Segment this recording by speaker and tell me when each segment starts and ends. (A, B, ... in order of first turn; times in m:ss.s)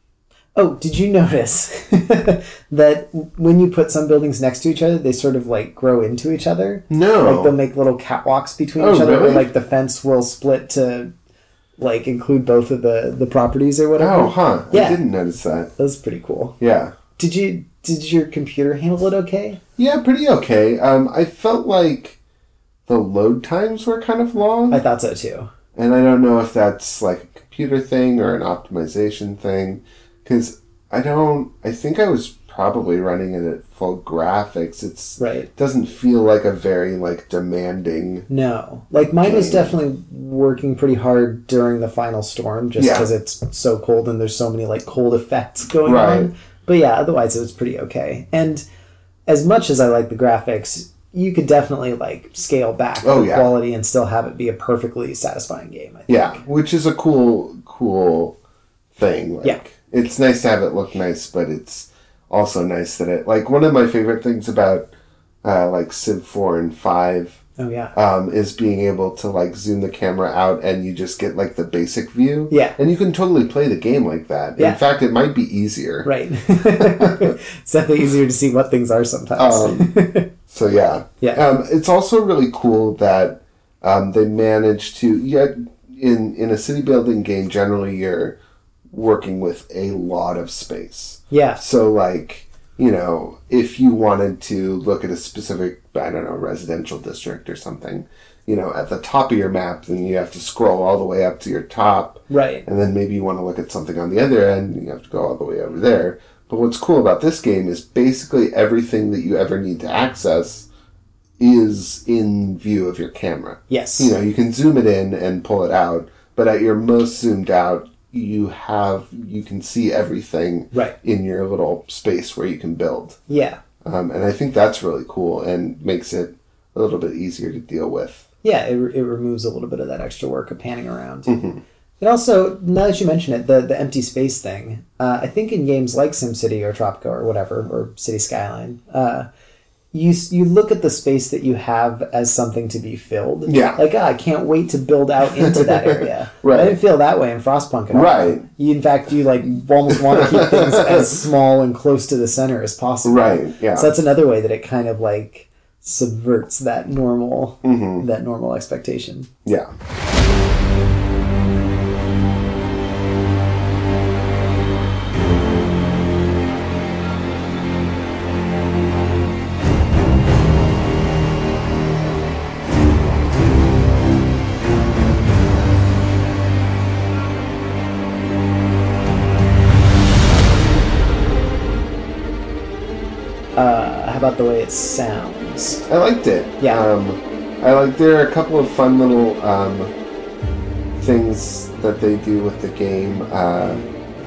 0:00.6-0:11.1 A
0:06.9-0:07.5 B
0:08.8-0:09.5 B
0:11.8-0:15.0 A
0:14.0-0:15.7 B
0:15.8-0:16.6 A
0:16.6-0:16.9 B
0:17.2-0:19.6 A
0:19.8-0:22.2 B
0:22.9-0:24.8 B
0:24.7-0:25.5 A
0:25.7-0:38.3 B
0:35.2-0:35.5 A
0:38.3-0:48.6 A
0:39.2-0:39.8 B
0:42.8-0:43.1 B
0:45.8-0:46.3 B
0:49.3-0:56.4 A
0:53.0-0:53.5 B
0:56.1-0:58.4 B
0:58.9-1:04.9 B
1:05.4-1:07.4 B
1:07.6-1:07.9 A
1:07.9-1:16.1 B
1:12.5-1:12.8 A
1:16.0-1:20.3 A
1:16.6-1:17.3 B
1:19.4-1:19.9 B
1:20.5-1:28.4 B
1:28.9-1:50.7 B
1:31.3-1:31.6 A
1:42.3-1:42.6 A
1:51.4-2:03.2 B
1:53.7-1:54.1 A
2:03.3-2:03.6 A
2:03.8-2:08.2 B
2:08.4-2:11.4 A
2:11.3-2:11.6 B
2:12.0-2:19.3 A
2:19.9-2:39.3 A
2:23.4-2:23.8 B
2:25.4-2:26.8 B
2:27.9-2:28.4 B
2:29.5-2:31.2 B
2:33.0-2:33.9 B
2:37.6-2:38.0 B
2:39.4-2:39.7 B
3:03.6-3:05.8 A
3:05.9-3:09.9 B
3:06.6-3:06.8 A
3:11.0-3:13.8 B